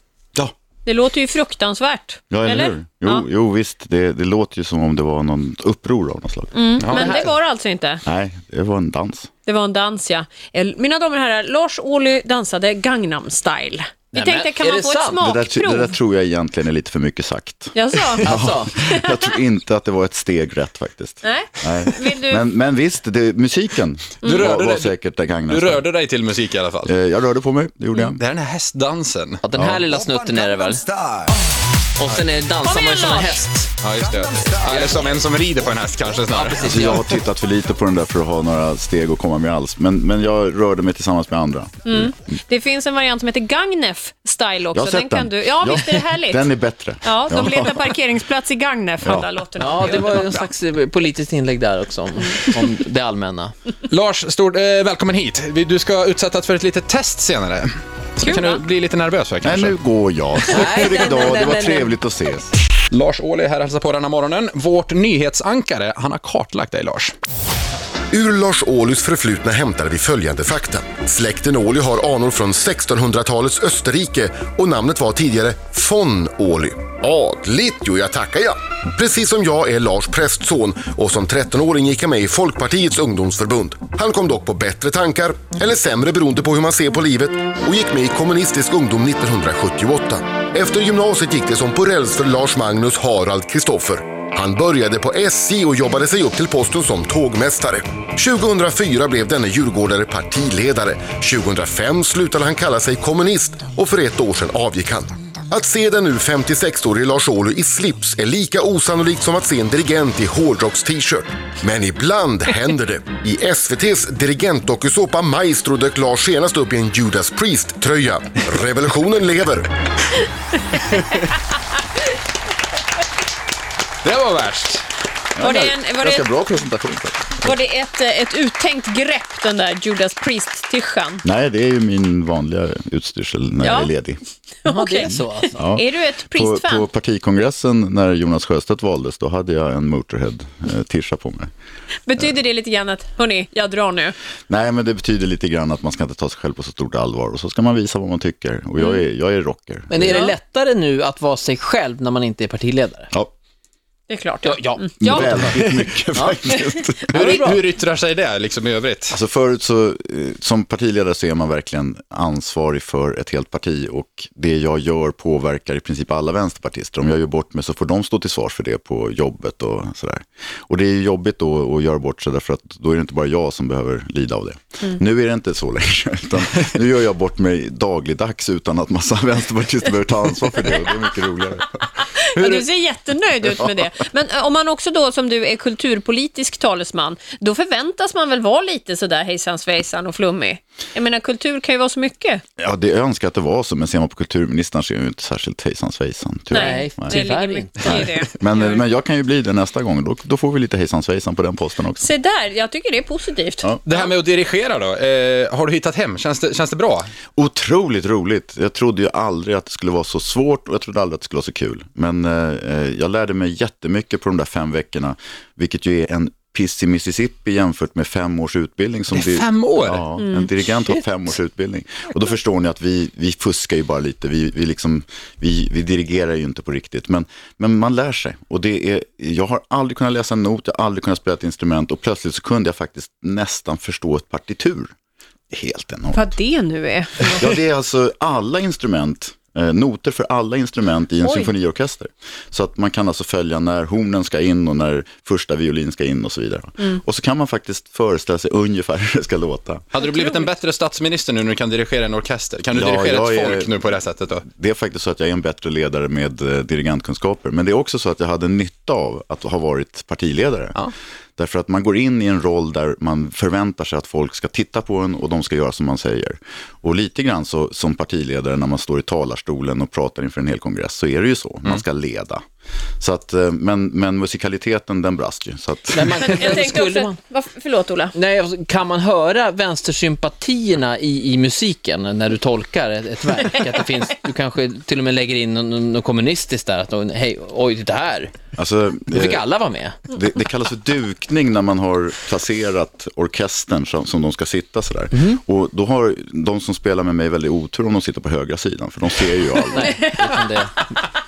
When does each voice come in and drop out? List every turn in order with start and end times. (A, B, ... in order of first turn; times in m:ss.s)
0:00.8-0:03.2 A
0:02.3-0:07.2 B
0:06.5-0:08.0 A
0:06.8-0:07.2 C
0:08.0-0:09.3 B
0:09.4-0:16.0 A
0:14.1-0:15.2 D
0:15.2-0:25.9 B
0:17.7-0:19.4 A
0:18.2-0:18.7 D
0:21.2-0:22.4 A
0:24.2-0:25.0 C
0:24.2-0:24.5 A
0:25.5-0:26.9 C
0:26.8-0:28.2 B
0:28.1-0:29.4 C
0:29.4-0:30.9 D
0:29.5-0:29.8 B
0:32.0-0:33.8 D
0:32.6-0:33.5 A
0:33.8-0:36.8 C
0:34.4-0:34.9 D
0:36.3-0:37.0 D
0:36.6-0:42.0 B
0:41.8-0:46.5 A
0:44.7-0:47.9 B
0:47.0-0:50.4 A
0:49.0-0:49.3 B
0:49.6-0:53.5 D
0:53.9-0:59.7 C
0:58.2-0:58.6 A
0:59.4-1:02.5 B
1:00.5-1:01.9 D
1:02.9-1:07.1 C
1:08.1-1:59.7 E
2:00.8-2:01.3 A
2:04.0-2:04.8 C
2:05.3-2:07.5 B
2:05.4-2:06.3 A
2:07.4-2:11.2 A
2:11.2-2:14.2 B
2:13.6-2:13.9 A
2:14.6-2:16.9 A
2:14.7-2:15.6 D
2:15.5-2:21.5 B
2:22.1-2:24.1 A
2:24.5-2:30.2 B
2:29.9-2:33.1 D
2:30.0-2:30.4 A
2:34.1-2:35.5 A
2:34.4-2:36.4 D
2:35.0-2:37.5 B
2:37.1-2:39.2 C
2:37.2-2:37.6 D
2:39.1-3:02.6 B
3:02.0-3:12.4 A
3:03.5-3:03.8 B
3:12.6-3:17.2 B
3:16.5-3:18.8 A
3:16.6-3:17.9 D
3:17.8-3:22.1 B
3:22.0-3:24.0 A
3:23.8-3:27.1 C
3:27.4-3:54.9 B
3:39.1-3:40.0 C
3:40.2-3:40.5 A
3:55.5-3:56.3 B
3:56.1-3:57.4 A
3:57.3-4:09.9 B
4:01.2-4:01.5 A
4:09.9-4:14.4 C
4:10.0-4:10.5 A
4:12.7-4:13.7 B
4:14.4-4:20.8 B
4:21.4-4:32.4 B
4:33.0-4:36.6 B
4:35.9-4:37.2 D
4:36.2-4:38.1 A
4:38.1-4:48.3 D
4:48.6-4:49.4 B
4:49.1-4:50.0 D
4:50.1-4:59.9 B
4:55.1-4:55.4 D
4:59.6-5:00.4 A
4:59.7-5:00.9 D